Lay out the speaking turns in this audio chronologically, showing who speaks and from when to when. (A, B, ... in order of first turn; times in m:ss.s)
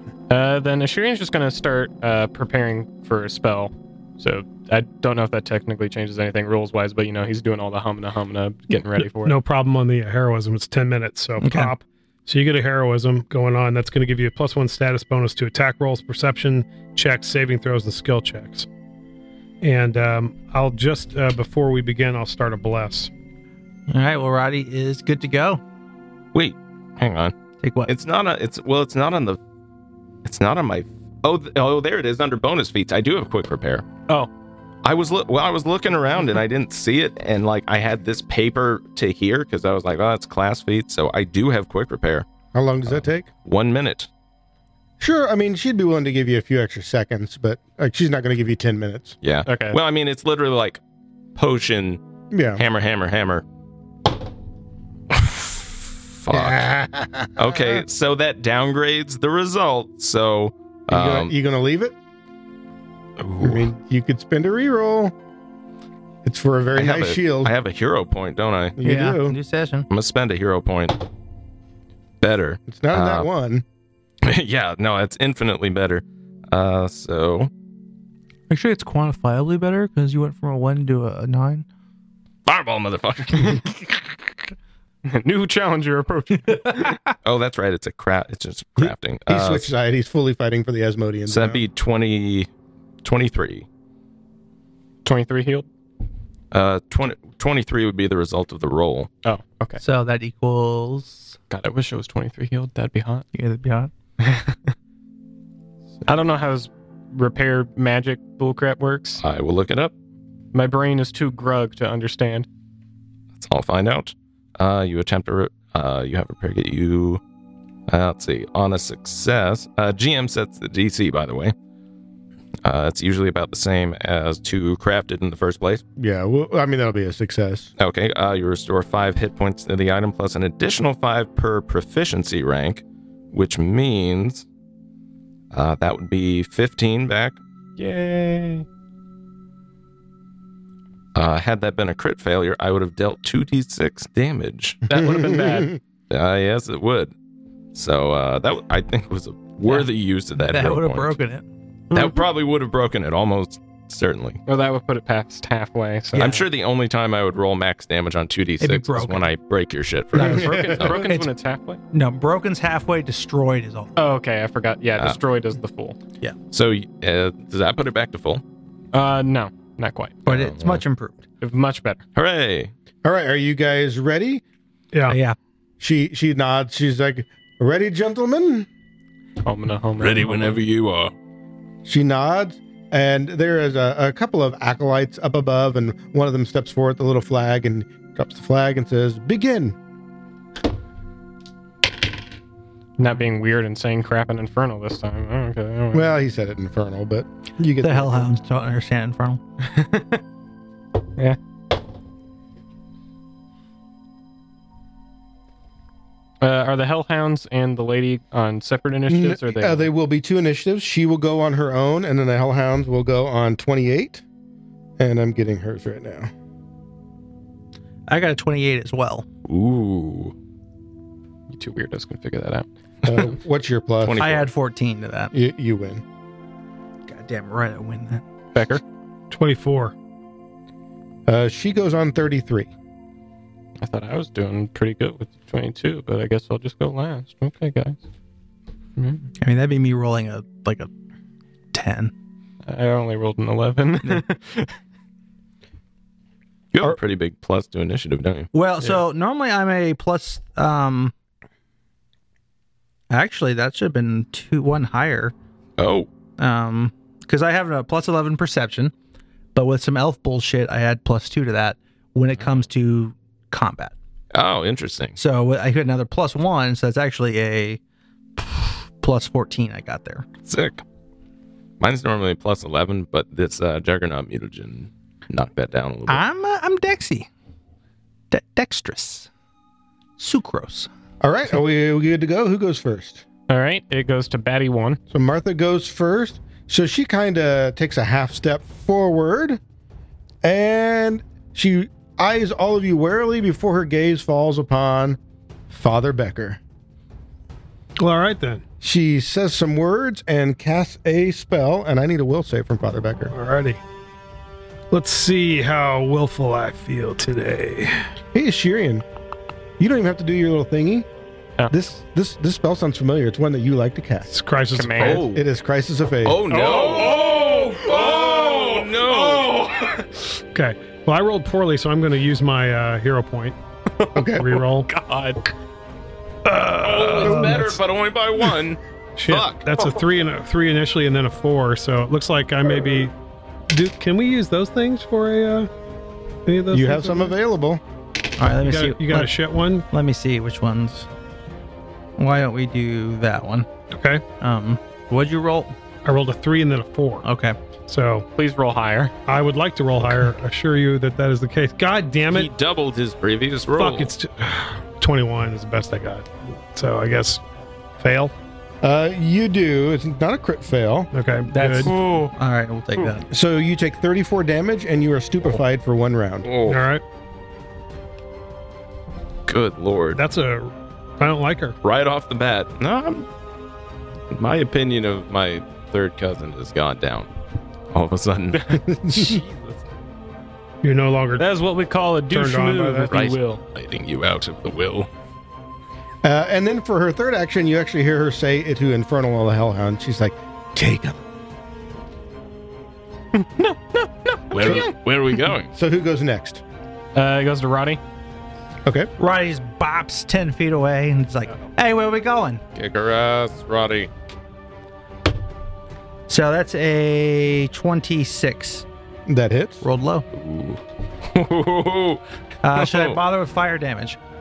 0:00.3-0:09.4 A
0:09.0-0:18.7 B
0:11.4-0:11.7 C
0:19.6-0:23.1 B
0:23.9-0:25.6 C
0:26.3-0:27.3 D
0:27.6-0:27.9 C
0:27.9-0:29.4 D
0:30.2-0:33.9 D
0:34.8-0:42.3 D
0:42.5-0:43.3 E
0:42.9-0:44.1 D
0:45.0-0:49.2 E
0:49.2-0:50.8 D
0:49.5-0:49.8 A
0:51.4-0:52.0 D
0:52.3-0:52.6 E
0:52.6-0:53.4 D
0:55.1-0:56.7 D
0:56.3-0:57.8 E
0:57.4-1:01.4 D
1:00.9-1:02.0 E
1:03.2-1:03.7 D
1:03.4-1:05.1 E
1:06.2-1:07.5 E
1:06.8-1:08.8 D
1:08.8-1:09.4 E
1:08.8-1:09.9 C
1:09.9-1:11.0 D
1:12.2-1:13.3 D
1:12.7-1:13.6 E
1:14.2-1:17.5 D
1:18.5-1:21.6 C
1:22.5-1:24.2 D
1:25.0-1:27.0 A
1:26.7-1:27.0 C
1:27.2-1:29.7 D
1:28.8-1:31.6 E
1:31.3-1:32.5 D
1:33.0-1:33.7 D
1:35.0-1:35.7 A
1:36.5-1:39.1 D
1:39.2-1:39.8 A
1:39.8-1:41.3 C
1:41.5-1:43.3 A
1:43.3-1:43.9 C
1:44.2-1:44.7 A
1:46.1-1:49.2 A
1:49.2-1:49.9 D
1:50.5-1:52.5 A
1:53.4-1:57.2 D
1:57.9-2:01.5 D
2:02.6-2:05.8 D
2:06.0-2:07.7 E
2:07.8-2:14.4 D
2:15.5-2:17.4 D
2:17.8-2:18.7 A
2:21.2-2:24.8 D
2:24.9-2:25.7 A
2:24.9-2:25.8 E
2:26.1-2:27.1 D
2:27.7-2:31.2 D
2:30.4-2:31.4 C
2:31.9-2:32.2 A
2:31.9-2:34.4 D
2:34.5-2:36.3 A
2:36.1-2:36.4 C
2:36.2-2:41.0 D
2:38.6-2:39.3 C
2:40.1-2:41.3 C
2:40.2-2:41.1 E
2:40.3-2:41.8 A
2:41.9-2:43.9 C
2:44.0-2:46.0 A
2:46.5-2:48.4 D
2:48.9-2:50.2 A
2:50.3-2:51.2 C
2:50.3-2:50.8 D
2:51.4-2:52.0 A
2:52.2-2:52.7 D
2:53.0-2:54.4 E
2:54.9-2:55.2 B
2:55.1-2:55.4 C
2:55.8-2:58.7 E
2:59.4-3:00.6 A
3:00.0-3:01.1 D
3:01.8-3:09.8 E
3:13.0-3:16.1 A
3:15.9-3:18.3 E
3:17.8-3:19.4 C
3:19.6-3:20.2 A
3:26.4-3:29.9 A
3:29.1-3:34.2 E
3:35.0-3:36.3 E
3:38.1-3:39.3 C
3:39.5-3:40.3 D
3:41.5-3:42.7 A
3:43.0-3:44.3 E
3:44.0-3:44.5 D
3:44.2-3:45.3 C
3:45.3-3:46.0 E
3:47.1-3:48.2 C
3:48.5-3:48.8 A
3:49.3-3:49.9 B
3:51.3-3:52.7 E
3:53.8-3:58.0 A
3:59.0-3:59.3 A
3:59.4-4:00.9 C
4:01.7-4:02.1 C
4:02.6-4:04.7 A
4:06.7-4:08.5 D
4:08.5-4:11.1 C
4:13.1-4:15.3 C
4:15.8-4:16.1 D
4:16.4-4:18.9 C
4:19.6-4:23.9 C
4:22.4-4:22.7 D
4:24.3-4:25.2 D
4:25.2-4:27.8 C
4:28.4-4:30.3 C
4:30.4-4:30.8 D
4:31.8-4:36.2 D
4:36.1-4:37.3 C
4:38.3-4:39.3 C
4:40.2-4:40.9 C
4:41.2-4:43.2 E
4:43.5-4:45.0 A
4:45.1-4:49.6 E
4:50.4-4:55.2 E
4:55.7-4:56.6 E
4:58.0-4:58.6 B
4:58.8-5:03.3 E
5:03.3-5:03.8 B
5:04.9-5:08.1 B
5:08.3-5:09.0 E
5:09.8-5:11.1 E
5:11.7-5:14.3 E
5:14.3-5:15.2 B
5:14.7-5:15.2 A
5:15.0-5:15.4 D
5:15.1-5:16.4 E
5:16.2-5:19.6 D
5:16.5-5:20.1 A
5:20.5-5:23.6 B
5:24.0-5:25.5 A
5:24.2-5:24.6 E
5:24.4-5:24.9 B
5:26.4-5:27.8 B
5:26.8-5:29.8 D
5:27.2-5:27.8 E
5:29.2-5:33.1 B
5:33.7-5:35.7 B
5:36.5-5:37.3 B
5:36.7-5:37.8 E
5:38.4-5:39.4 C
5:38.6-5:39.9 B
5:39.9-5:41.1 C
5:42.2-5:43.7 C
5:43.9-5:44.2 B
5:44.4-5:45.7 C
5:46.0-5:47.2 B
5:47.2-5:47.6 C
5:47.9-5:48.2 B
5:48.4-5:49.1 A
5:49.3-5:52.5 B
5:52.3-5:54.1 D
5:53.8-5:57.4 B
5:58.0-5:58.3 B
5:58.8-6:01.1 E
6:01.1-6:01.9 B
6:01.5-6:03.2 C
6:03.3-6:06.5 E
6:06.5-6:06.8 D
6:06.6-6:07.0 B
6:09.5-6:10.2 D
6:10.2-6:11.8 B
6:11.8-6:13.3 D
6:14.3-6:17.3 D
6:17.9-6:18.8 D
6:18.8-6:19.4 E
6:20.8-6:21.5 B
6:21.4-6:23.6 A
6:22.3-6:23.1 B
6:23.1-6:25.1 D
6:26.2-6:31.2 E
6:33.3-6:35.0 A
6:34.5-6:35.7 D
6:34.6-6:34.9 E
6:35.7-6:36.6 E
6:37.2-6:38.0 A
6:38.8-6:39.1 E
6:39.2-6:42.6 C
6:42.8-6:44.1 D
6:46.3-6:48.8 C
6:49.3-6:49.8 E
6:49.8-6:50.2 C
6:50.3-6:52.2 D
6:52.6-6:54.2 C
6:52.7-6:53.2 D